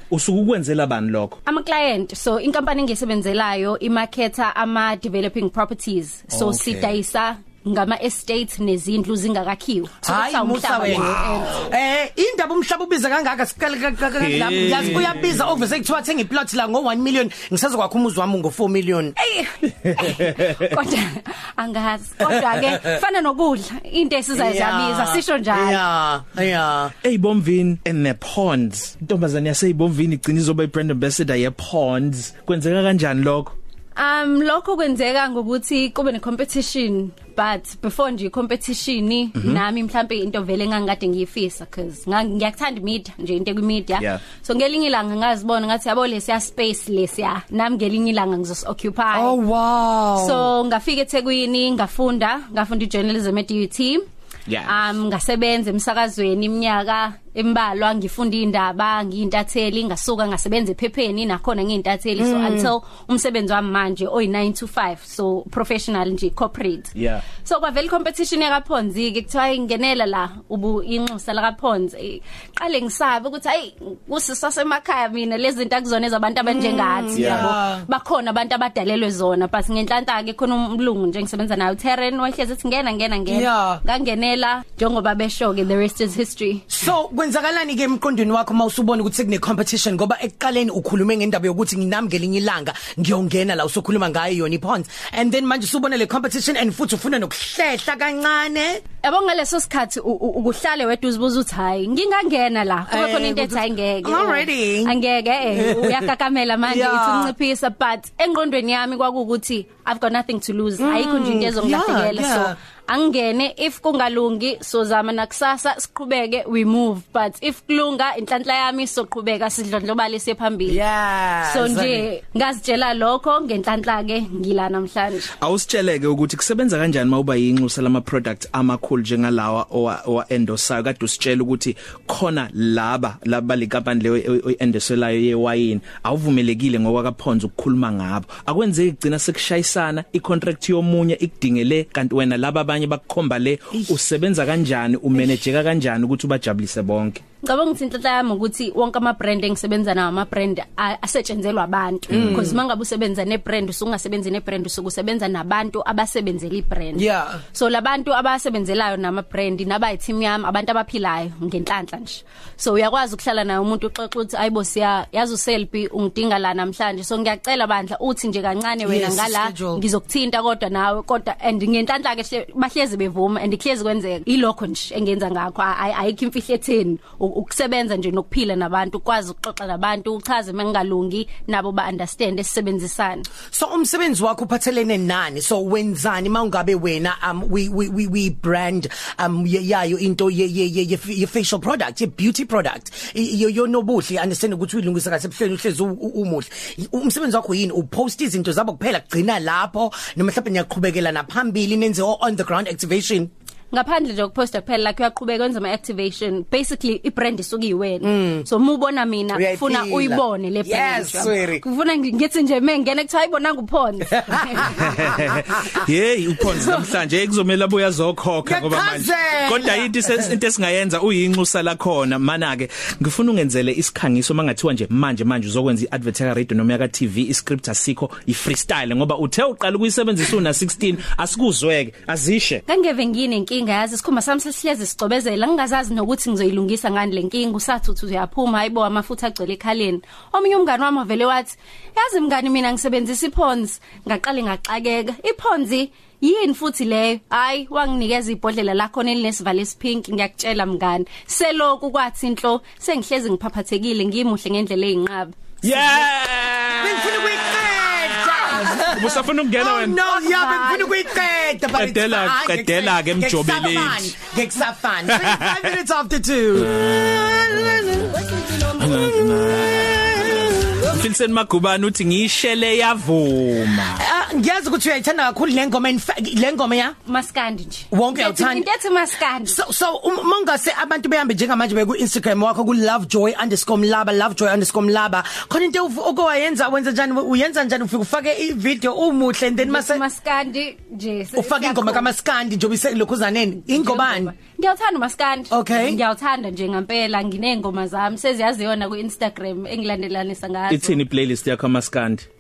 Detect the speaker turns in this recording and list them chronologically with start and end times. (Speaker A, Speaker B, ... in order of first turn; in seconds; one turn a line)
Speaker A: 0.1-1.4
Speaker B: 1.5-11.7
Speaker A: 6.3-6.9
Speaker C: 10.1-19.1
Speaker A: 14.2-15.3
Speaker B: 19.2-25.8
Speaker A: 19.9-20.4
Speaker C: 24.3-26.9
Speaker A: 27.0-33.5
Speaker B: 34.0-49.4
Speaker C: 49.1-50.5
Speaker B: 50.1-54.0
Speaker A: 54.5-54.9
Speaker B: 54.6-86.7
Speaker C: 62.2-62.7
Speaker A: 67.0-67.3
Speaker C: 76.5-77.8
Speaker A: 77.1-77.5
Speaker C: 83.3-83.8
Speaker C: 86.7-98.8
Speaker B: 99.0-120.8
Speaker C: 102.9-105.0
Speaker C: 105.5-106.1
Speaker C: 106.7-107.3
Speaker C: 110.8-112.6
Speaker C: 120.7-122.1
Speaker B: 121.5-125.3
Speaker A: 125.4-147.2
Speaker B: 147.4-183.3
Speaker C: 152.2-152.6
Speaker C: 156.9-157.4
Speaker C: 168.8-169.8
Speaker C: 183.5-203.3
Speaker B: 203.7-215.5
Speaker C: 208.0-208.5
Speaker C: 209.3-211.6
Speaker C: 214.3-214.7
Speaker A: 214.7-232.6
Speaker B: 216.4-216.8
Speaker C: 218.4-220.3
Speaker B: 232.7-256.0
Speaker A: 255.6-260.0
Speaker C: 256.8-270.8
Speaker B: 260.1-261.2
Speaker A: 261.7-264.1
Speaker A: 265.1-265.6
Speaker A: 266.7-267.8
Speaker A: 268.7-274.1
Speaker C: 273.9-276.9
Speaker B: 277.1-279.6
Speaker C: 277.9-278.7
Speaker C: 279.5-290.0
Speaker B: 289.7-292.1
Speaker C: 291.4-294.3
Speaker B: 293.7-301.0
Speaker C: 295.5-296.0
Speaker A: 300.7-302.3